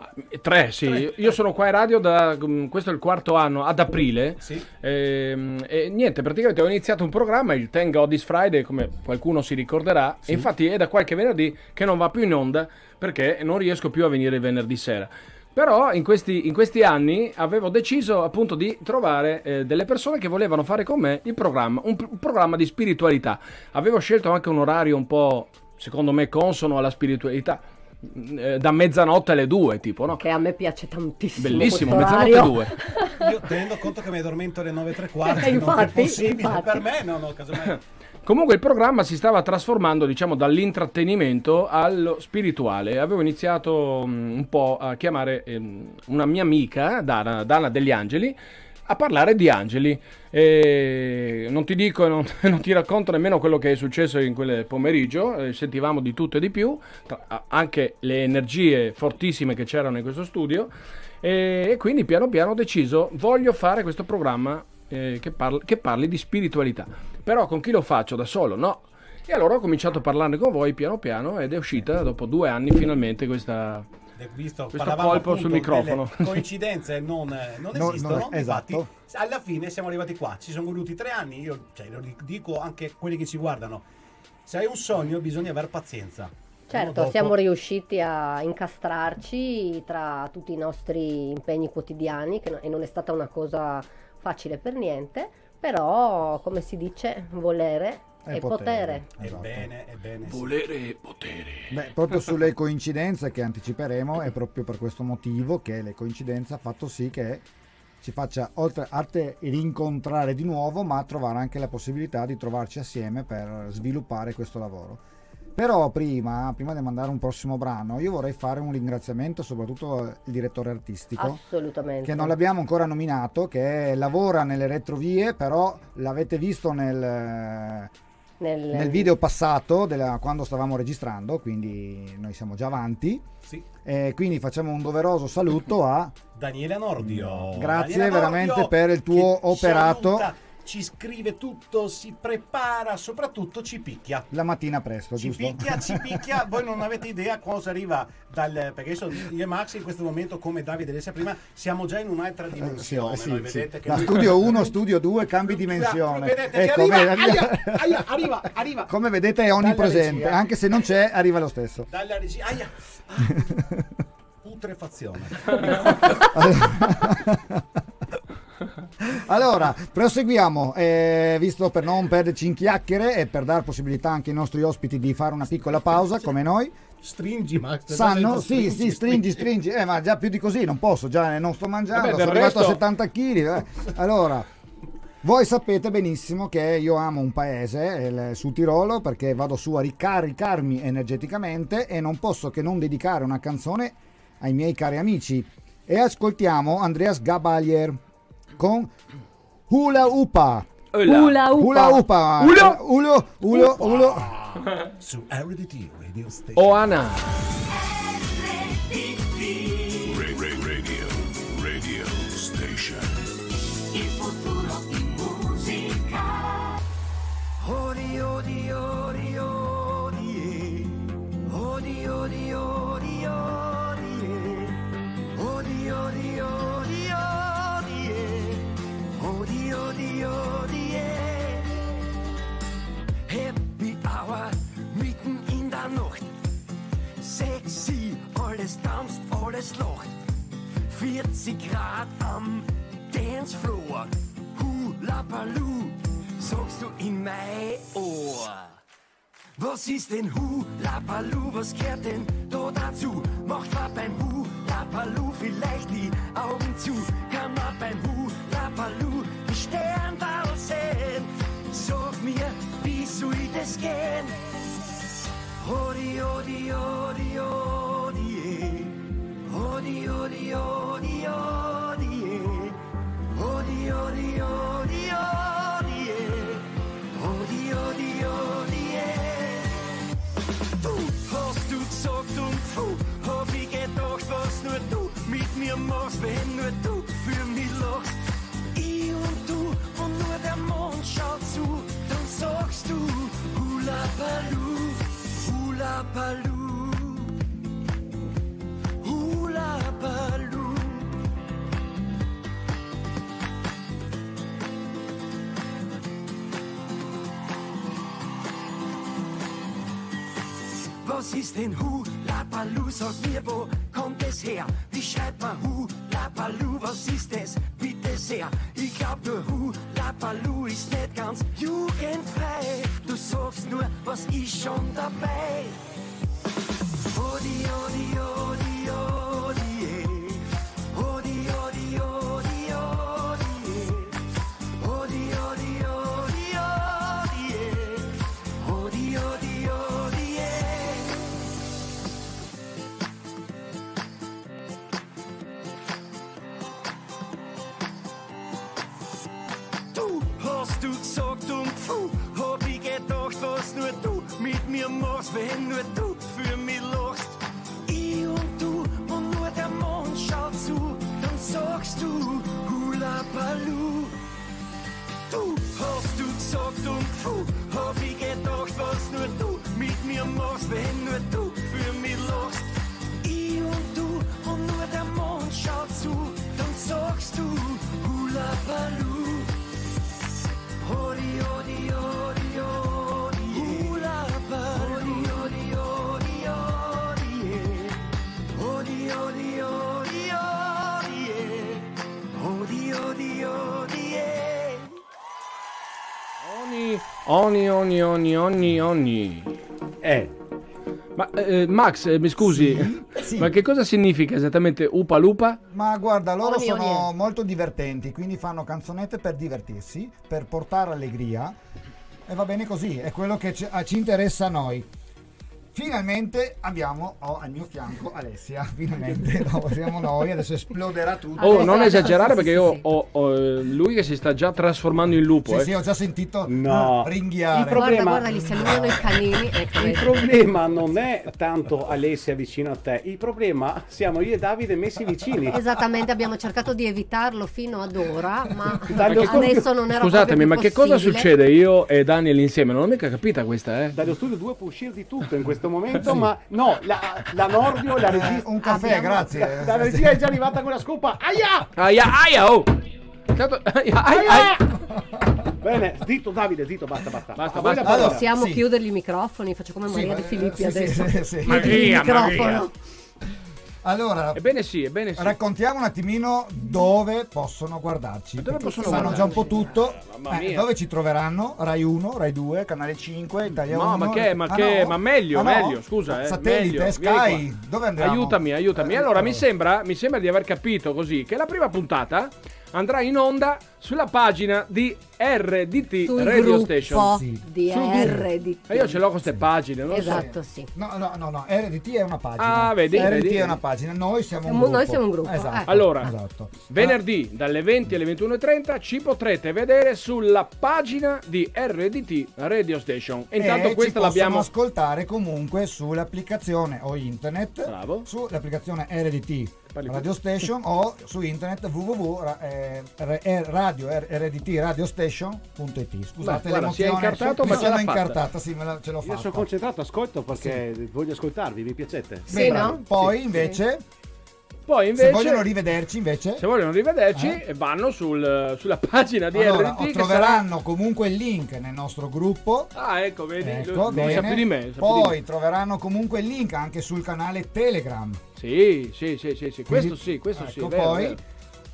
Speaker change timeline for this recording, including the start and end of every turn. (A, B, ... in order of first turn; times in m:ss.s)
0:00.1-0:30.2 A
0:00.8-0:01.4 B
0:30.2-0:33.2 C
0:31.4-0:32.7 A
0:33.2-0:37.8 B
0:35.3-0:36.8 C
0:38.2-1:00.7 A
1:01.2-1:13.8 A
1:14.2-1:23.8 B
1:14.7-1:16.4 A
1:17.7-1:18.9 D
1:24.4-1:27.4 B
1:26.7-1:39.0 C
1:38.2-1:39.7 D
1:39.2-1:40.5 B
1:40.3-1:41.7 A
1:41.7-1:47.4 D
1:48.0-1:55.0 D
1:55.6-2:01.4 D
2:01.2-2:02.4 C
2:02.0-2:07.9 D
2:08.4-2:09.1 C
2:08.7-2:13.2 D
2:13.8-2:16.2 D
2:16.4-2:24.3 B
2:17.0-2:20.3 D
2:24.3-2:26.2 D
2:25.2-2:34.7 B
2:32.6-2:38.1 D
2:35.5-2:38.9 B
2:38.9-2:41.9 D
2:39.6-2:40.5 B
2:41.9-2:43.6 B
2:43.3-2:43.8 D
2:44.4-2:46.3 B
2:46.3-2:47.6 D
2:49.0-2:56.8 D
2:57.0-2:59.4 B
2:57.9-3:04.5 D
3:01.9-3:02.8 A
3:05.2-3:18.0 D
3:18.6-3:18.9 D
3:19.7-3:24.3 D
3:20.9-3:22.8 A
3:23.5-3:26.8 B
3:26.6-3:27.3 A
3:29.0-3:29.9 E
3:30.0-3:33.2 F
3:33.9-3:36.6 E
3:37.6-3:44.8 E
3:45.3-3:51.8 E
3:53.3-3:56.3 E
3:57.2-4:00.1 E
4:00.9-4:08.7 E
4:09.6-4:24.4 E
4:25.6-4:32.8 E
4:33.3-4:39.8 E
4:40.8-4:48.2 E
4:48.7-4:57.3 E
4:59.0-5:01.1 E
5:11.0-5:25.8 E
5:27.1-5:34.2 E
5:34.8-5:41.2 E
5:49.9-6:04.1 E
6:05.3-6:19.5 E
6:20.8-6:28.0 E
6:23.5-6:24.0 B
6:24.8-6:25.2 B
6:28.5-6:34.9 E
6:36.4-6:39.5 A
6:40.0-6:40.3 B
6:41.2-6:45.6 A
6:42.4-6:43.5 D
6:45.7-6:51.6 D
6:46.4-6:47.1 C
6:52.3-6:54.9 D
6:55.7-7:02.3 D
7:01.4-7:02.8 C
7:01.4-7:05.7 A
7:05.5-7:09.0 D
7:06.4-7:15.6 B
7:07.6-7:10.3 C
7:15.5-7:21.3 C
7:18.8-7:19.7 B
7:19.2-7:23.9 A
7:23.9-7:31.7 B
7:28.0-7:30.2 D
7:28.6-7:29.2 C
7:31.8-7:32.8 A
7:33.3-7:34.8 A
7:34.1-7:35.4 D
7:35.6-7:38.2 B
7:37.4-7:38.1 A
7:37.8-7:38.6 D
7:37.9-7:42.7 C
7:39.9-7:42.5 D
7:41.4-7:42.7 A
7:43.8-7:44.4 D
7:44.3-7:45.4 A
7:45.2-7:59.4 D
7:48.4-7:50.6 A
7:48.6-7:49.6 C
7:53.7-7:57.4 A
7:58.0-8:07.1 A
8:06.0-8:09.0 C
8:06.9-8:08.2 D
8:07.8-8:08.2 A
8:08.7-8:10.3 A
8:09.3-8:17.0 D
8:09.9-8:10.7 C
8:12.4-8:13.6 A
8:14.4-8:15.7 C
8:15.7-8:16.1 A
8:16.7-8:24.5 A
8:23.4-8:39.5 D
8:27.7-8:28.0 A
8:29.7-8:30.0 A
8:36.2-8:38.2 A
8:39.0-8:43.4 B
8:40.3-8:40.6 D
8:42.3-8:43.8 D
8:42.3-8:42.8 C
8:44.7-8:45.5 A
8:45.0-8:46.4 D
8:46.4-8:50.4 A
8:47.1-8:47.4 D
8:49.3-8:52.7 D
8:52.8-8:55.2 A
8:53.4-8:58.2 D
8:58.4-9:01.2 A
8:59.7-9:01.2 D